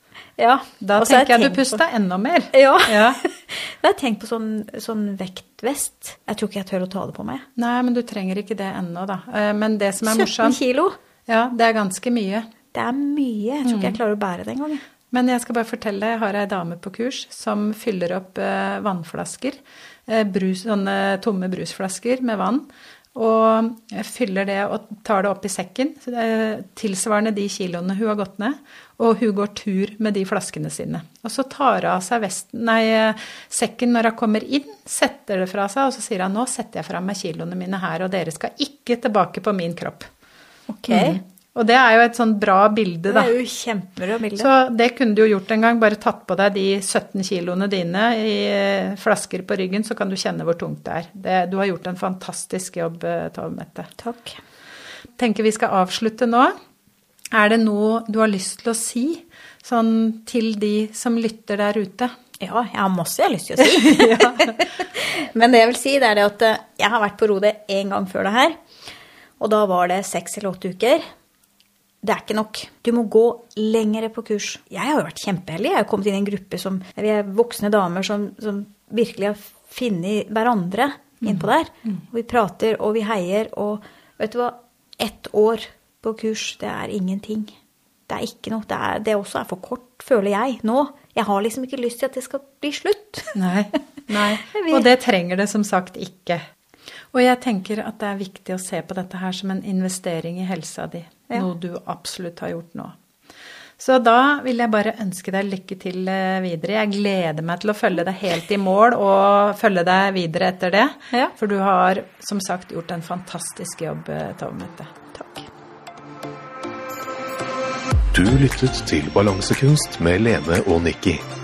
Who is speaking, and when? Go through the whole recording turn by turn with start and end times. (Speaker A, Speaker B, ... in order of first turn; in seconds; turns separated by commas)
Speaker A: 0.4-1.8, Speaker B: 0.8-3.2, Speaker A: 2.5-7.5, Speaker B: 7.6-10.6, Speaker A: 10.0-11.0, Speaker B: 11.3-12.5, Speaker A: 12.7-14.8, Speaker B: 13.7-14.0, Speaker B: 15.1-40.1, Speaker A: 40.7-41.2, Speaker B: 40.9-43.3, Speaker A: 43.1-44.5, Speaker B: 44.4-53.9, Speaker A: 54.0-54.4, Speaker B: 55.2-56.5, Speaker B: 57.3-62.1, Speaker A: 62.4-68.6, Speaker B: 63.6-64.6, Speaker A: 69.4-71.0, Speaker A: 72.0-87.5, Speaker B: 81.2-81.5, Speaker A: 88.1-93.4, Speaker B: 93.3-96.4, Speaker A: 94.4-94.9, Speaker B: 97.1-103.0, Speaker B: 103.8-114.9, Speaker A: 115.1-115.5, Speaker C: 118.1-121.2